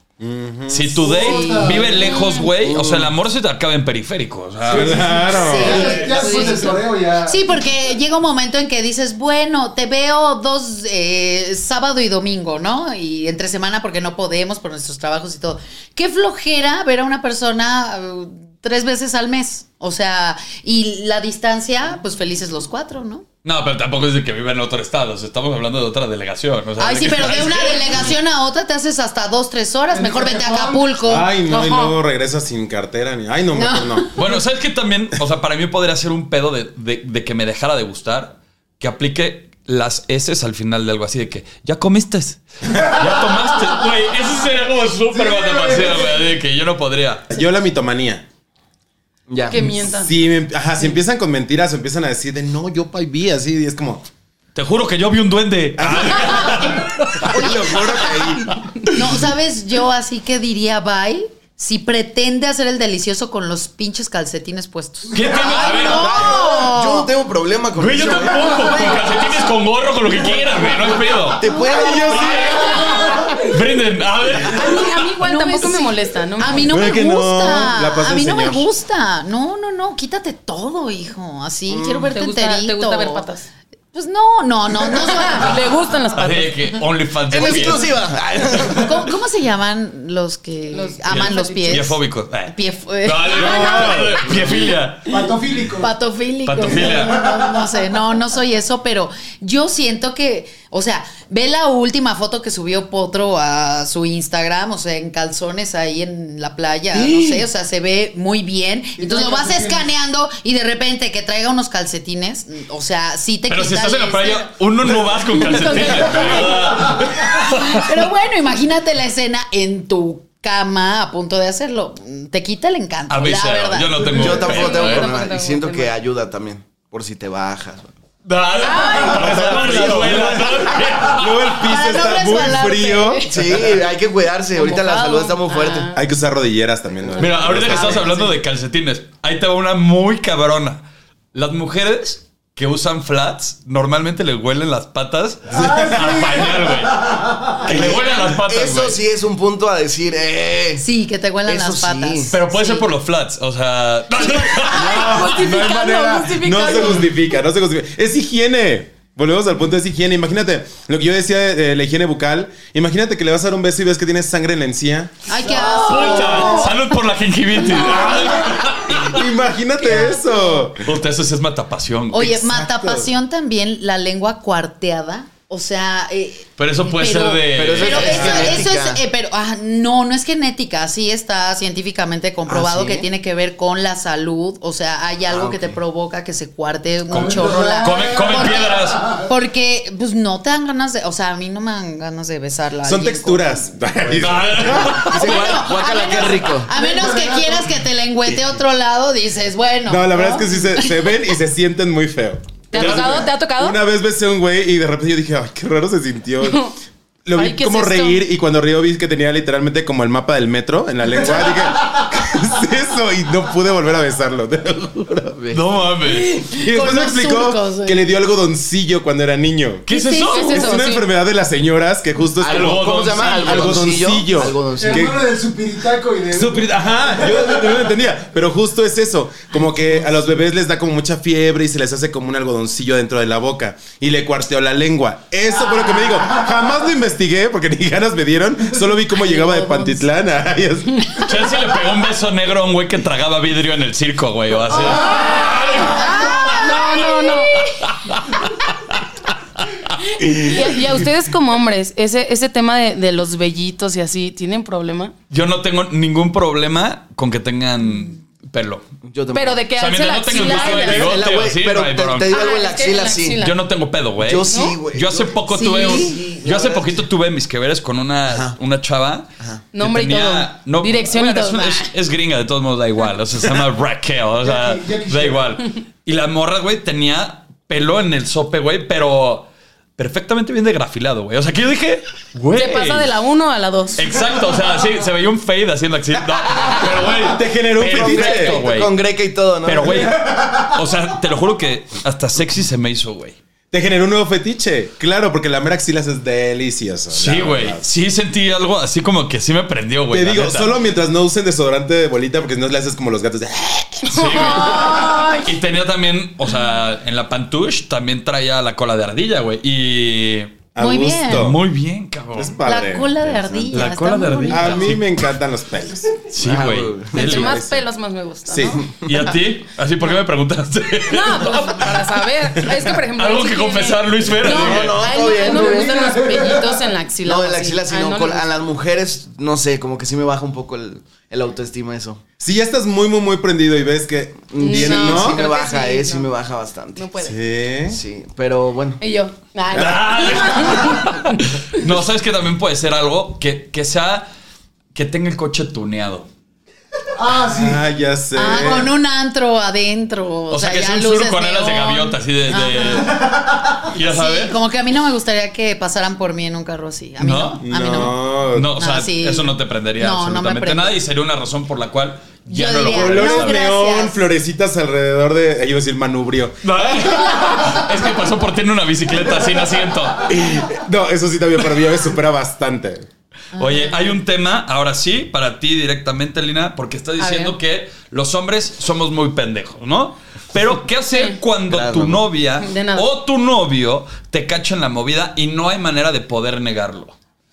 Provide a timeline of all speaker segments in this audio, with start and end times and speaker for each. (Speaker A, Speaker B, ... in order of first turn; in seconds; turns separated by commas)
Speaker A: 0.2-1.1, Speaker B: 0.7-5.1, Speaker C: 1.0-2.1, Speaker D: 1.1-2.1, Speaker E: 1.9-2.5, Speaker F: 2.6-3.1, Speaker C: 4.7-7.5, Speaker A: 4.7-6.1, Speaker D: 5.3-23.2, Speaker E: 6.3-6.6, Speaker B: 23.4-28.1, Speaker D: 26.8-31.3, Speaker C: 29.9-31.0, Speaker A: 31.0-34.2, Speaker E: 31.5-31.9, Speaker D: 33.5-34.1, Speaker B: 34.2-47.3, Speaker C: 45.1-46.1, Speaker A: 47.3-48.3, Speaker F: 49.3-49.6, Speaker E: 49.5-50.2, Speaker A: 49.9-54.0, Speaker B: 54.5-58.6, Speaker A: 55.8-58.6, Speaker D: 57.3-57.8, Speaker D: 58.9-67.1, Speaker B: 65.1-66.3, Speaker F: 65.7-68.9, Speaker B: 67.8-71.5, Speaker F: 71.4-72.5, Speaker A: 71.5-72.8, Speaker D: 71.6-72.0, Speaker B: 72.1-75.0, Speaker C: 73.0-73.2, Speaker E: 74.5-76.8, Speaker D: 75.2-83.3, Speaker A: 76.6-78.7, Speaker F: 81.7-82.0, Speaker E: 82.0-83.5, Speaker D: 83.9-85.5, Speaker E: 85.0-86.6, Speaker B: 86.1-87.9, Speaker F: 87.3-89.1, Speaker D: 88.7-92.0, Speaker E: 90.7-91.9, Speaker B: 91.1-95.2, Speaker D: 92.5-94.4, Speaker A: 93.4-94.4, Speaker C: 95.1-95.9, Speaker D: 95.8-114.5, Speaker B: 96.5-97.2, Speaker C: 96.6-97.7, Speaker F: 107.0-107.4, Speaker C: 109.0-109.9, Speaker B: 113.5-118.1, Speaker D: 115.4-116.3, Speaker C: 116.2-117.2, Speaker D: 117.4-124.1, Speaker B: 123.1-125.1, Speaker F: 124.1-127.9, Speaker E: 124.2-125.9, Speaker B: 128.2-131.6, Speaker E: 128.6-129.9, Speaker A: 129.1-133.6, Speaker D: 131.6-133.4, Speaker F: 133.3-135.9, Speaker E: 134.6-136.0, Speaker A: 135.9-138.1, Speaker B: 137.2-140.8, Speaker B: 141.3-149.0, Speaker A: 145.5-146.2, Speaker C: 145.5-147.7, Speaker A: 147.7-147.9, Speaker F: 147.7-150.9, Speaker D: 150.8-152.9, Speaker F: 151.5-152.3, Speaker B: 152.3-155.3, Speaker E: 154.2-157.1, Speaker A: 154.7-165.3, Speaker D: 165.3-166.8, Speaker B: 165.6-169.3, Speaker E: 166.1-166.5, Speaker D: 167.8-168.2, Speaker A: 169.0-170.9, Speaker D: 169.8-170.2, Speaker B: 170.8-172.4, Speaker D: 172.1-193.8, Speaker A: 172.3-173.1, Speaker B: 176.6-178.5, Speaker F: 177.5-179.0, Speaker F: 182.5-183.1, Speaker F: 185.3-185.7, Speaker C: 187.1-189.3, Speaker B: 187.1-189.0, Speaker A: 192.8-195.1, Speaker B: 194.1-195.7, Speaker D: 194.9-201.2, Speaker F: 195.1-196.7, Speaker C: 196.7-197.8, Speaker A: 199.9-206.6, Speaker E: 202.7-203.8, Speaker B: 202.7-203.3, Speaker E: 206.4-206.7, Speaker A: 207.3-215.4, Speaker E: 207.3-208.3, Speaker C: 211.2-212.1, Speaker F: 215.4-215.7, Speaker B: 215.5-216.4, Speaker A: 216.4-219.8, Speaker D: 216.5-218.0, Speaker B: 219.9-220.8, Speaker D: 219.9-220.8, Speaker E: 220.1-221.1, Speaker A: 220.5-225.3, Speaker F: 222.4-225.1, Speaker B: 222.4-224.0, Speaker C: 224.8-227.8, Speaker A: 226.3-241.3, Speaker D: 239.6-239.9, Speaker B: 241.2-246.8, Speaker E: 244.9-247.7, Speaker D: 245.9-247.1, Speaker B: 247.7-248.7, Speaker A: 250.2-250.7, Speaker E: 250.5-255.2, Speaker B: 255.3-258.9, Speaker F: 259.0-259.6, Speaker E: 259.3-261.2, Speaker B: 259.8-262.3, Speaker F: 260.3-263.4, Speaker E: 262.3-263.6, Speaker B: 263.4-283.1, Speaker F: 264.2-267.0, Speaker E: 264.5-264.8, Speaker D: 265.5-266.2, Speaker F: 268.3-268.6, Speaker E: 269.7-271.9, Speaker C: 274.4-275.5, Speaker E: 282.5-284.1, Speaker B: 284.0-288.9, Speaker A: 287.2-288.6, Speaker F: 287.8-290.1, Speaker B: 289.6-293.4, Speaker A: 289.9-290.6, Speaker A: 293.7-297.8, Speaker B: 297.1-300.8, Speaker A: 300.1-304.1, Speaker E: 304.1-305.5, Speaker B: 304.1-310.6, Speaker A: 310.8-311.6, Speaker D: 310.8-311.5, Speaker B: 311.3-312.6, Speaker A: 312.4-313.8, Speaker D: 312.6-314.9, Speaker B: 313.7-315.1, Speaker A: 314.5-316.2, Speaker B: 316.3-317.6, Speaker F: 316.4-317.4, Speaker E: 317.1-318.8, Speaker A: 317.2-317.8, Speaker A: 318.5-318.8, Speaker B: 319.0-321.9, Speaker E: 321.1-328.5, Speaker B: 322.7-325.0, Speaker F: 324.4-326.1, Speaker C: 325.3-326.9, Speaker F: 327.2-332.2, Speaker A: 332.4-335.4, Speaker F: 334.5-337.1, Speaker E: 334.6-336.3, Speaker E: 337.0-337.4, Speaker A: 337.2-338.0, Speaker F: 337.9-339.0, Speaker E: 339.0-341.4, Speaker B: 339.7-344.3, Speaker B: 344.9-346.3, Speaker C: 347.2-347.8, Speaker A: 347.4-349.0, Speaker D: 348.4-353.1, Speaker B: 350.5-353.2, Speaker C: 353.1-353.7, Speaker B: 353.9-354.5, Speaker D: 354.0-358.2, Speaker B: 357.2-363.6, Speaker A: 357.6-358.7, Speaker D: 358.8-361.0, Speaker D: 362.5-364.2, Speaker A: 362.9-367.2, Speaker B: 366.6-370.3, Speaker A: 370.3-373.1, Speaker D: 373.5-374.1, Speaker B: 373.6-387.1, Speaker E: 377.2-377.6, Speaker E: 381.1-381.4, Speaker F: 381.7-382.2, Speaker E: 382.6-383.1